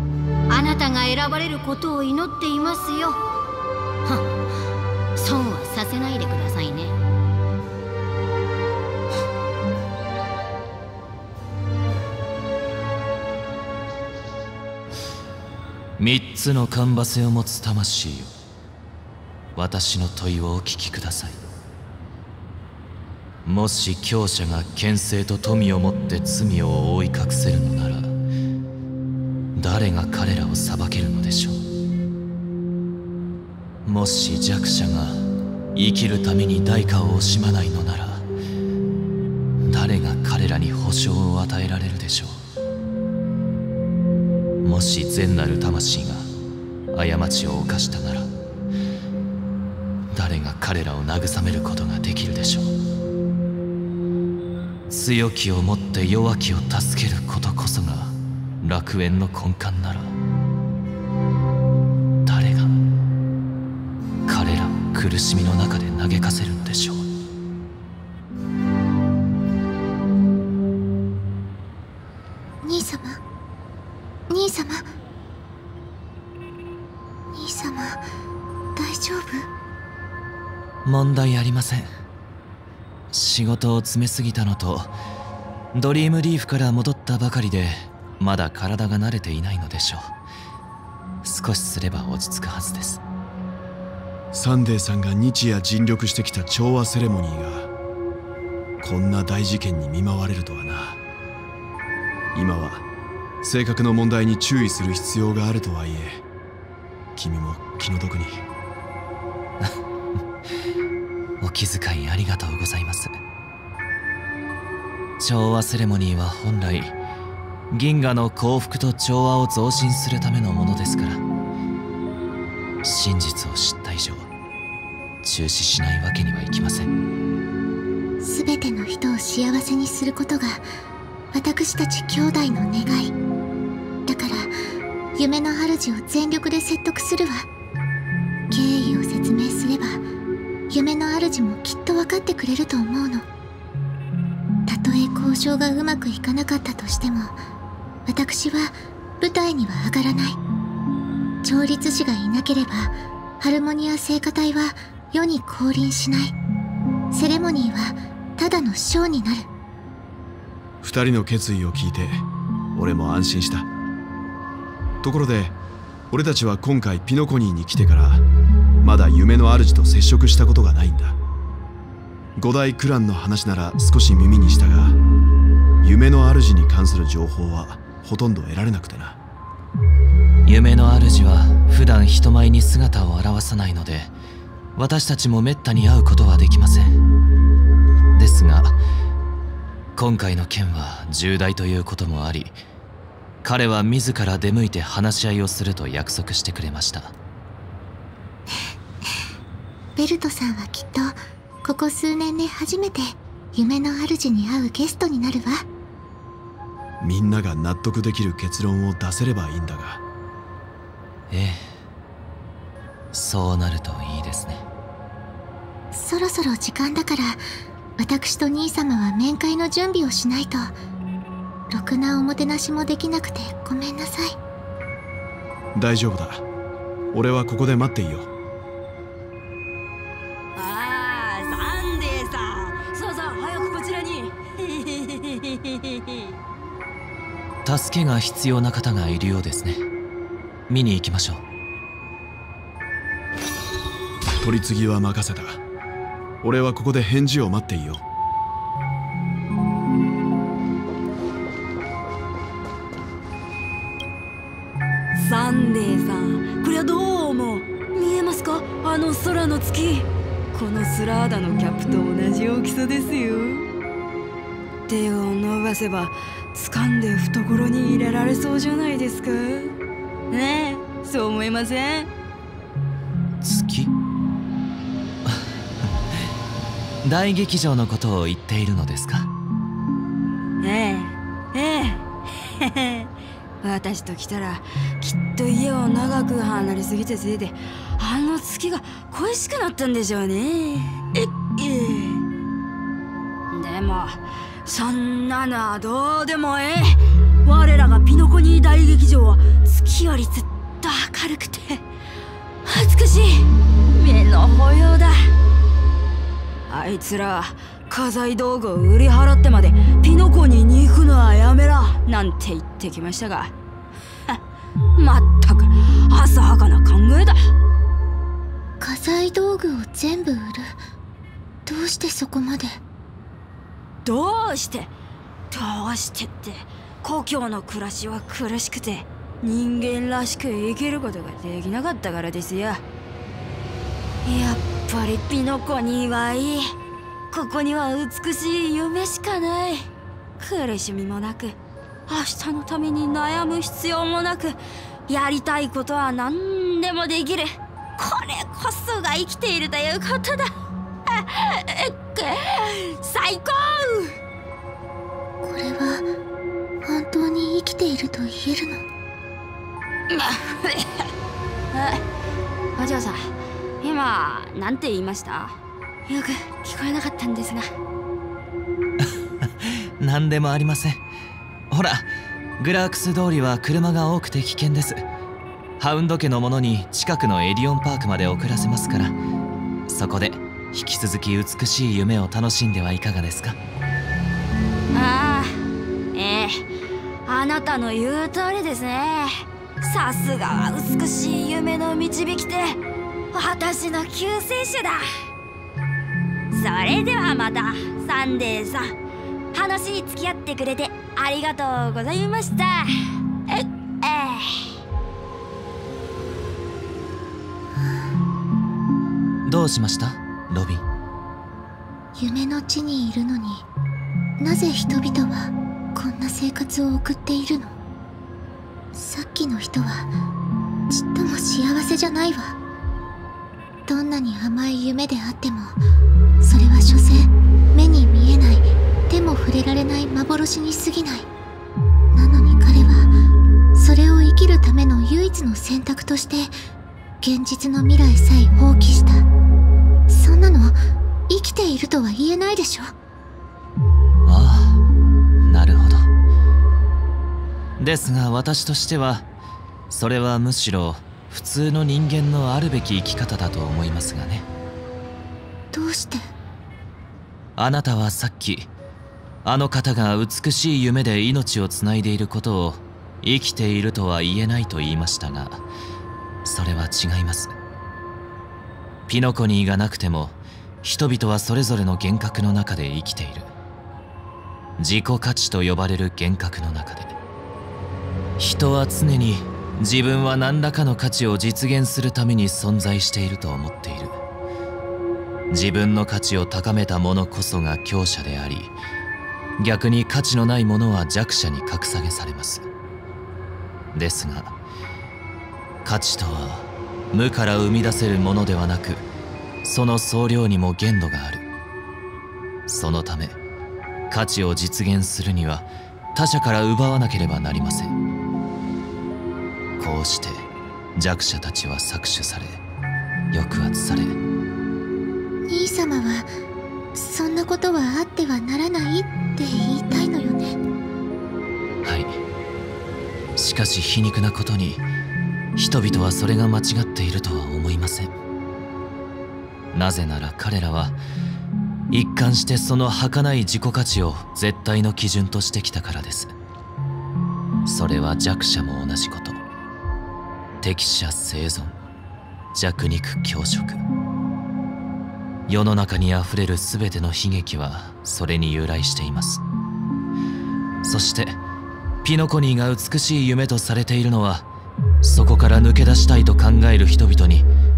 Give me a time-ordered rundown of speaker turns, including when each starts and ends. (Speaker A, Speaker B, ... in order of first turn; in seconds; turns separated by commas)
Speaker A: 0.5-3.2, Speaker A: 5.2-7.0, Speaker B: 16.0-18.3, Speaker B: 19.6-21.4, Speaker B: 23.4-28.1, Speaker B: 29.5-31.6, Speaker B: 33.8-35.2, Speaker B: 35.7-38.2, Speaker B: 39.7-42.4, Speaker B: 44.6-46.3, Speaker B: 46.9-48.3, Speaker B: 50.1-52.7, Speaker B: 54.9-60.1, Speaker B: 62.2-62.8, Speaker B: 64.2-67.0, Speaker C: 72.6-73.2, Speaker C: 74.3-74.8, Speaker C: 77.3-78.0, Speaker C: 78.8-79.5, Speaker B: 80.8-81.9, Speaker B: 83.1-84.9, Speaker B: 85.7-90.1, Speaker B: 91.2-93.0, Speaker D: 94.3-97.7, Speaker D: 98.8-101.0, Speaker D: 102.3-102.8, Speaker D: 103.4-106.2, Speaker D: 107.2-108.4, Speaker B: 111.4-113.2, Speaker B: 115.2-116.9, Speaker B: 117.7-121.2, Speaker B: 122.8-124.3, Speaker B: 125.2-126.9, Speaker C: 128.2-130.6, Speaker C: 131.3-133.1, Speaker C: 134.1-134.5, Speaker C: 135.2-137.4, Speaker C: 138.5-140.0, Speaker C: 140.7-143.2, Speaker C: 144.7-147.4, Speaker C: 148.1-150.4, Speaker C: 151.4-156.3, Speaker C: 157.1-159.5, Speaker D: 160.8-162.2, Speaker D: 162.7-163.7, Speaker D: 165.0-165.5, Speaker D: 166.1-168.2, Speaker D: 168.8-171.2, Speaker D: 172.3-175.0, Speaker D: 175.8-179.2, Speaker B: 180.4-184.1, Speaker B: 184.8-187.0, Speaker B: 188.1-188.8, Speaker B: 189.9-192.6, Speaker B: 193.4-197.1, Speaker C: 199.9-205.7, Speaker D: 207.0-210.0, Speaker B: 211.3-211.7, Speaker B: 213.1-214.6, Speaker C: 215.9-217.4, Speaker C: 218.0-220.8, Speaker C: 221.7-224.4, Speaker D: 225.7-226.4, Speaker D: 227.1-228.3, Speaker E: 230.6-236.2, Speaker B: 237.6-239.8, Speaker B: 240.7-241.4, Speaker D: 244.4-245.6, Speaker D: 246.4-248.0, Speaker E: 255.1-263.7, Speaker E: 264.9-269.7, Speaker E: 270.3-272.1, Speaker B: 273.4-273.9, Speaker B: 277.0-279.3, Speaker E: 280.6-282.0, Speaker E: 282.6-283.1, Speaker E: 283.6-292.2, Speaker E: 293.5-301.8, Speaker E: 302.6-305.3, Speaker E: 306.7-313.5, Speaker E: 314.9-317.5, Speaker C: 318.8-320.8, Speaker C: 321.6-322.8, Speaker E: 324.0-324.9, Speaker E: 325.5-332.8, Speaker E: 334.2-336.7, Speaker E: 337.3-339.9, Speaker E: 340.4-341.6, Speaker E: 342.1-350.5, Speaker E: 351.1-354.1, Speaker C: 355.4-356.1, Speaker C: 356.8-358.8, Speaker E: 360.1-360.9, Speaker E: 361.7-362.0, Speaker E: 362.8-363.3, Speaker E: 363.8-365.5, Speaker E: 366.1-367.7, Speaker B: 370.0-371.0, Speaker B: 371.7-372.1, Speaker B: 372.6-375.0, Speaker B: 375.8-379.1, Speaker B: 379.9-383.6, Speaker E: 384.9-385.6, Speaker E: 386.1-386.6, Speaker E: 387.2-392.8, Speaker E: 393.3-395.0, Speaker E: 396.5-398.9, Speaker E: 399.5-402.9, Speaker E: 403.5-404.6, Speaker B: 409.4-410.8, Speaker C: 412.1-413.6, Speaker C: 414.4-417.8, Speaker C: 418.9-420.1, Speaker C: 420.9-422.5, Speaker C: 423.9-425.8, Speaker C: 426.4-431.3, Speaker C: 432.1-433.1, Speaker C: 433.7-436.5, Speaker C: 437.2-439.3, Speaker C: 440.1-440.8, Speaker C: 441.3-442.9, Speaker B: 444.2-444.8, Speaker B: 445.4-446.1, Speaker B: 447.8-449.2, Speaker B: 449.9-454.4, Speaker C: 455.7-456.2, Speaker B: 457.6-458.7, Speaker B: 459.4-465.6, Speaker B: 466.4-467.5, Speaker B: 469.1-473.5, Speaker B: 474.8-477.1, Speaker B: 478.4-484.2, Speaker B: 485.5-488.7, Speaker B: 489.6-492.7, Speaker B: 493.9-494.5, Speaker B: 495.8-499.0, Speaker B: 499.6-501.4, Speaker B: 502.7-503.4, Speaker B: 504.1-507.9, Speaker B: 509.8-512.6, Speaker B: 513.3-514.2, Speaker C: 515.5-516.3, Speaker C: 516.9-520.5, Speaker B: 521.8-522.1, Speaker B: 523.4-524.8, Speaker B: 525.5-528.1, Speaker B: 529.7-531.0, Speaker B: 531.9-536.3, Speaker B: 537.6-539.4, Speaker B: 540.6-541.7, Speaker B: 542.5-543.8, Speaker B: 545.5-549.4, Speaker B: 550.8-551.4, Speaker B: 552.0-554.5, Speaker B: 555.0-557.5